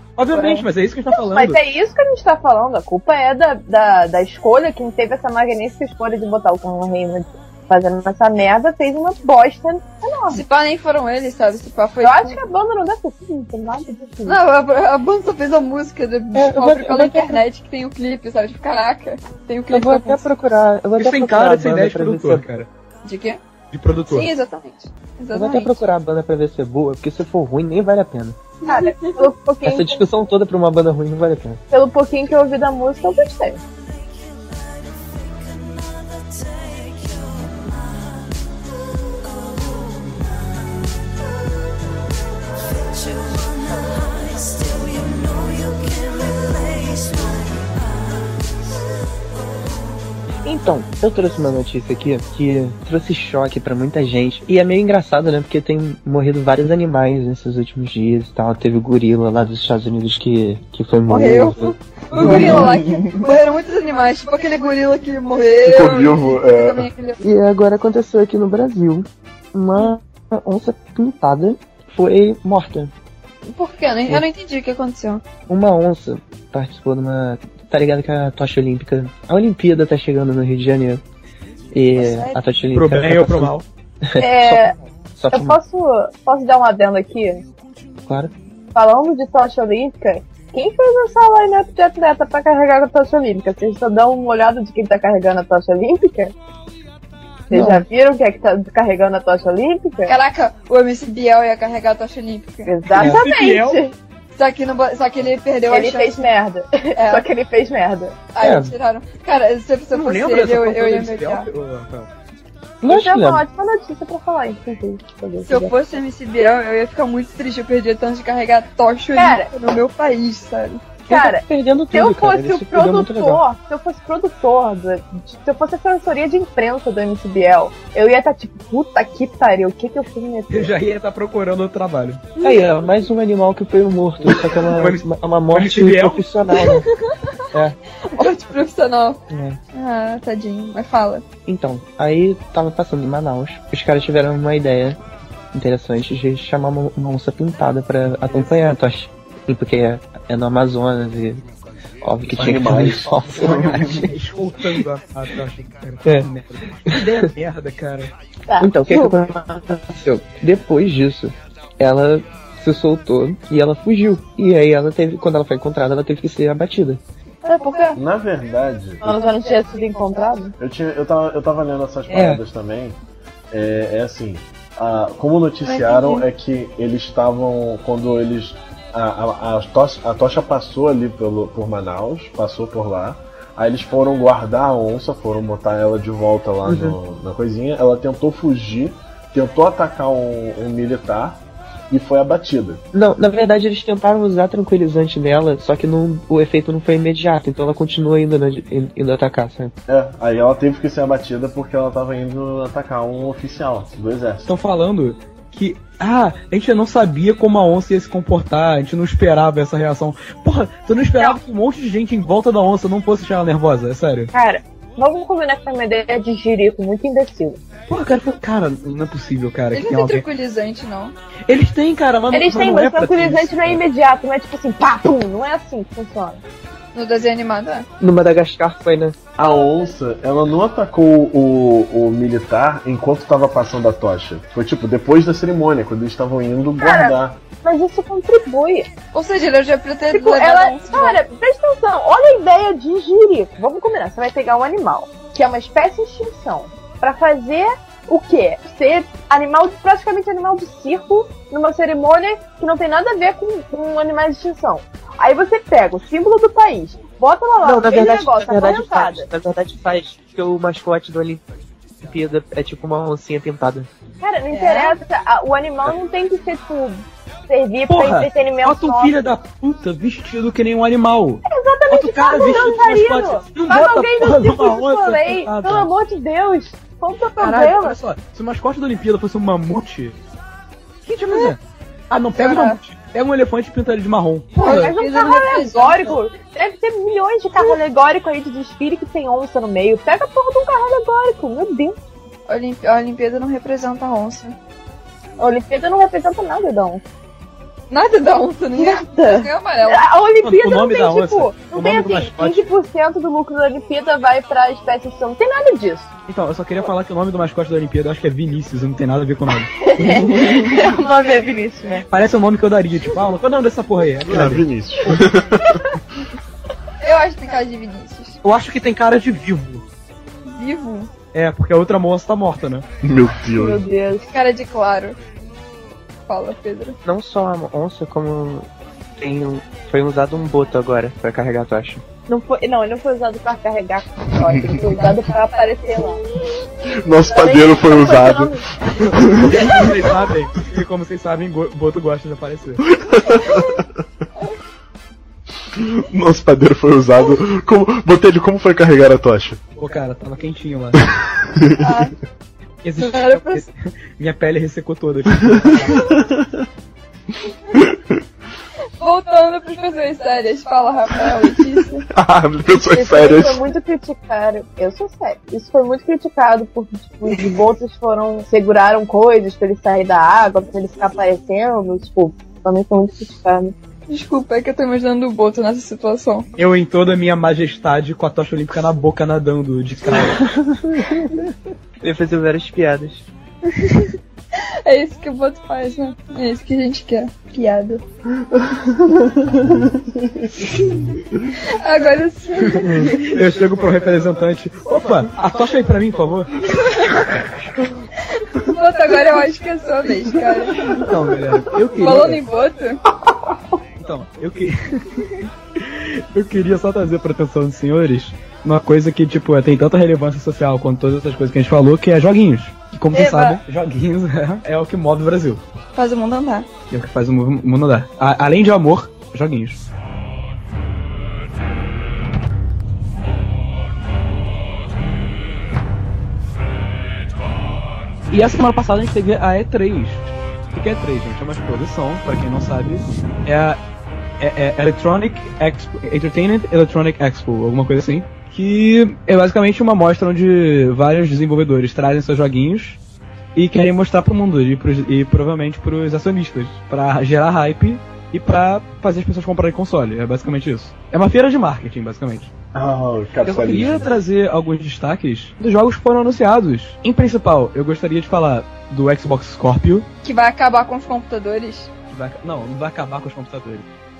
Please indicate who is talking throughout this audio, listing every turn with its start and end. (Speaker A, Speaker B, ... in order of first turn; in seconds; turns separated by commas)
Speaker A: 0.2-1.6, Speaker B: 0.3-0.6, Speaker C: 1.1-10.4, Speaker B: 10.3-12.4, Speaker C: 12.0-14.4, Speaker B: 14.2-20.3, Speaker D: 16.3-17.4, Speaker D: 19.7-22.4, Speaker A: 21.0-22.7, Speaker B: 23.0-23.4, Speaker A: 23.7-24.3, Speaker B: 24.1-25.8, Speaker D: 25.3-28.4, Speaker B: 28.6-29.2, Speaker C: 28.6-30.1, Speaker D: 29.6-31.6, Speaker C: 31.7-33.6, Speaker D: 50.4-62.8, Speaker B: 61.1-67.2, Speaker E: 62.2-62.9, Speaker E: 65.6-66.9, Speaker D: 67.2-72.9, Speaker B: 73.5-75.2, Speaker D: 75.5-81.0, Speaker D: 81.7-85.6, Speaker B: 81.9-82.4, Speaker A: 82.7-83.6, Speaker C: 84.2-84.7, Speaker C: 85.3-87.4, Speaker D: 88.1-88.3, Speaker C: 88.7-96.3, Speaker C: 97.5-100.1, Speaker D: 97.5-97.8, Speaker B: 100.0-102.7, Speaker C: 102.6-103.9, Speaker A: 102.9-103.8, Speaker B: 104.3-106.3, Speaker C: 105.7-108.2, Speaker B: 107.0-107.2, Speaker B: 108.3-111.5, Speaker D: 108.4-108.7, Speaker A: 109.9-112.1, Speaker D: 112.8-113.4, Speaker C: 112.8-115.8, Speaker B: 115.5-120.8, Speaker C: 119.1-119.5, Speaker D: 121.1-123.4, Speaker C: 121.1-130.7, Speaker A: 130.5-132.2, Speaker D: 132.4-136.9, Speaker A: 134.2-136.2, Speaker B: 136.5-137.1, Speaker B: 138.0-139.2, Speaker D: 139.3-139.6, Speaker B: 139.7-141.2, Speaker D: 141.4-145.0, Speaker D: 145.5-151.4, Speaker D: 152.0-154.1, Speaker E: 152.3-154.1, Speaker A: 152.7-158.1, Speaker C: 158.5-159.2, Speaker D: 158.6-167.0, Speaker B: 167.4-168.0, Speaker C: 167.6-167.9, Speaker E: 167.9-169.1, Speaker C: 169.0-170.5, Speaker B: 169.1-170.3, Speaker E: 170.6-173.0, Speaker D: 172.1-172.4, Speaker E: 173.5-192.8, Speaker B: 175.6-176.2, Speaker D: 186.7-186.9, Speaker D: 192.9-199.7, Speaker E: 199.9-204.5, Speaker A: 204.4-214.3, Speaker C: 214.3-217.6, Speaker A: 217.9-220.2, Speaker B: 219.7-221.1, Speaker A: 221.5-223.8, Speaker C: 222.3-226.4, Speaker B: 226.9-227.9, Speaker D: 228.0-229.1, Speaker E: 229.4-237.4, Speaker C: 236.8-238.9, Speaker B: 239.1-241.2, Speaker C: 240.1-259.3, Speaker D: 257.6-261.4, Speaker D: 262.0-263.9, Speaker C: 264.2-269.3, Speaker B: 264.5-265.0, Speaker A: 267.9-275.9, Speaker C: 271.5-278.0, Speaker A: 277.4-280.2, Speaker A: 281.1-284.9, Speaker B: 282.4-282.8, Speaker B: 284.6-286.2, Speaker C: 284.6-291.9, Speaker B: 292.5-294.6, Speaker C: 295.4-297.0, Speaker B: 297.9-300.0, Speaker C: 298.8-306.1, Speaker A: 300.4-302.7, Speaker A: 306.3-310.6, Speaker C: 309.8-312.1, Speaker A: 312.1-315.3, Speaker E: 314.2-315.9, Speaker B: 317.0-318.4, Speaker A: 318.4-319.8, Speaker B: 320.4-321.1, Speaker A: 321.3-322.8, Speaker E: 323.0-323.8, Speaker C: 323.5-324.3, Speaker B: 324.2-325.2, Speaker B: 326.3-327.0, Speaker D: 327.0-328.7, Speaker D: 329.2-332.0, Speaker C: 332.3-336.2, Speaker B: 334.3-336.1, Speaker E: 336.9-340.0, Speaker C: 337.3-339.8, Speaker A: 339.4-342.8, Speaker E: 342.9-343.8, Speaker E: 345.7-349.6, Speaker A: 349.8-351.0, Speaker E: 351.6-351.9, Speaker B: 351.8-352.1, Speaker A: 352.8-356.2, Speaker B: 353.0-353.7, Speaker E: 355.9-356.5, Speaker B: 359.0-362.1, Speaker E: 362.1-363.6, Speaker C: 362.9-373.7, Speaker B: 374.1-376.5, Speaker A: 376.6-380.4, Speaker D: 380.1-381.4, Speaker D: 382.0-383.3, Speaker B: 383.7-384.1, Speaker B: 384.8-388.0, Speaker E: 388.5-390.5, Speaker B: 391.6-393.3, Speaker A: 392.8-396.5, Speaker B: 398.4-400.9, Speaker A: 400.9-402.4, Speaker B: 401.9-403.0, Speaker A: 404.0-415.6, Speaker B: 413.1-413.6, Speaker B: 415.9-416.7, Speaker A: 416.9-419.8, Speaker A: 428.3-433.8, Speaker A: 434.4-443.0, Speaker A: 443.5-452.5, Speaker E: 452.7-454.1, Speaker A: 453.4-460.1, Speaker B: 460.2-461.9, Speaker A: 462.1-463.9